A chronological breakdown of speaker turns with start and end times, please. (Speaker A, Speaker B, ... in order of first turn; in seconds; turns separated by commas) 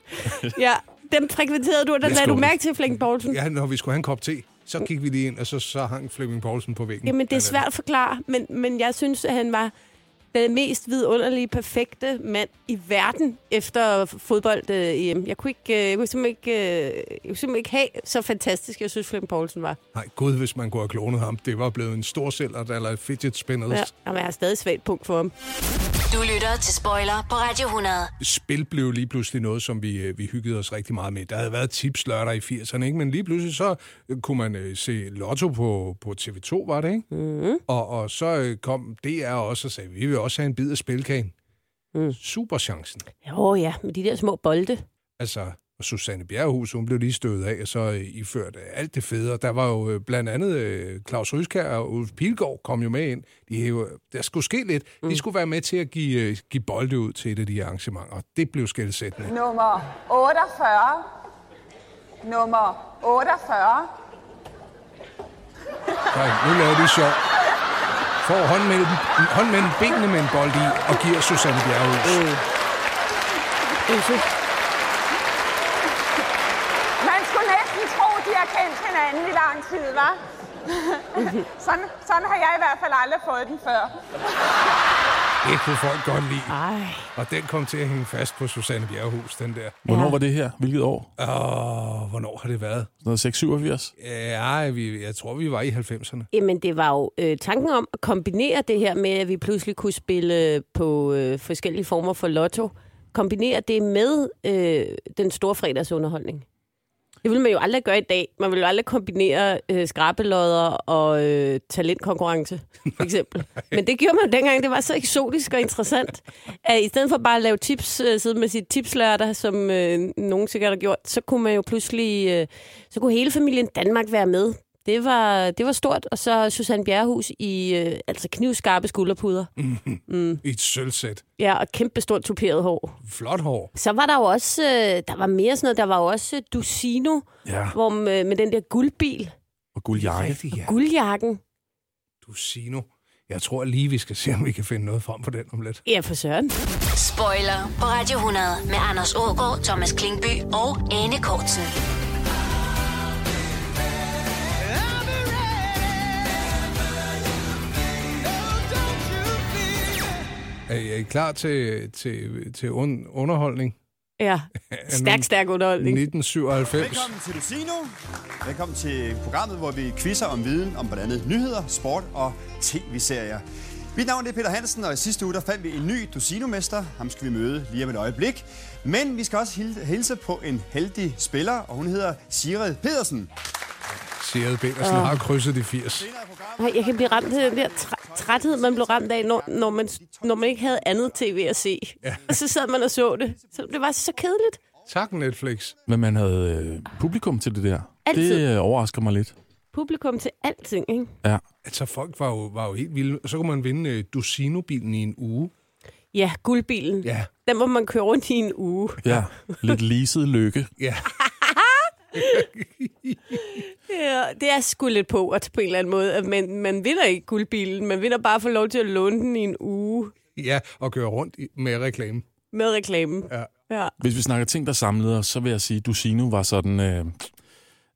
Speaker A: 0.2-3.4, Speaker B: 2.0-2.5, Speaker C: 2.0-2.5, Speaker C: 3.3-7.6, Speaker A: 7.0-9.7, Speaker A: 10.3-19.8, Speaker C: 19.9-23.9, Speaker A: 23.7-25.3, Speaker D: 26.1-28.1, Speaker C: 28.2-37.1, Speaker A: 37.1-37.6, Speaker C: 37.7-41.3, Speaker C: 42.1-43.0, Speaker A: 43.2-44.8, Speaker C: 45.2-59.3, Speaker E: 59.2-61.0, Speaker E: 62.2-63.9, Speaker C: 66.1-67.2, Speaker C: 68.2-72.2, Speaker A: 72.0-72.4, Speaker A: 73.9-74.2, Speaker E: 77.0-83.9, Speaker A: 81.2-81.4, Speaker C: 85.4-86.5, Speaker A: 86.5-87.1, Speaker C: 87.2-89.8, Speaker B: 89.8-91.1, Speaker A: 89.9-90.2, Speaker C: 91.2-92.9, Speaker B: 93.0-93.9, Speaker C: 94.0-96.3, Speaker A: 96.3-106.4, Speaker A: 107.2-129.5, Speaker C: 129.6-131.2, Speaker A: 130.1-130.4, Speaker A: 131.4-133.0, Speaker C: 133.0-133.7, Speaker A: 133.7-139.3, Speaker B: 137.4-137.8, Speaker B: 139.7-140.4, Speaker C: 139.9-140.7, Speaker A: 140.6-141.4, Speaker C: 142.2-145.8, Speaker A: 145.8-146.5, Speaker D: 146.9-151.7, Speaker C: 160.7-163.8, Speaker A: 164.2-166.0, Speaker C: 164.7-165.3, Speaker C: 165.8-167.1, Speaker F: 166.7-167.9, Speaker F: 168.4-173.4, Speaker F: 173.9-183.3, Speaker C: 184.0-186.1, Speaker A: 184.8-185.2, Speaker F: 186.0-191.2, Speaker A: 186.6-194.6, Speaker C: 192.0-192.3, Speaker C: 194.9-195.8, Speaker B: 195.9-199.3, Speaker A: 198.1-198.4, Speaker A: 199.7-201.1, Speaker C: 201.6-205.5, Speaker A: 206.1-209.0, Speaker C: 207.0-207.3, Speaker B: 209.0-210.7, Speaker C: 210.8-211.1, Speaker A: 211.4-212.5, Speaker C: 212.2-213.4, Speaker A: 213.5-220.1, Speaker C: 220.3-222.2, Speaker A: 222.5-223.9, Speaker B: 224.0-227.3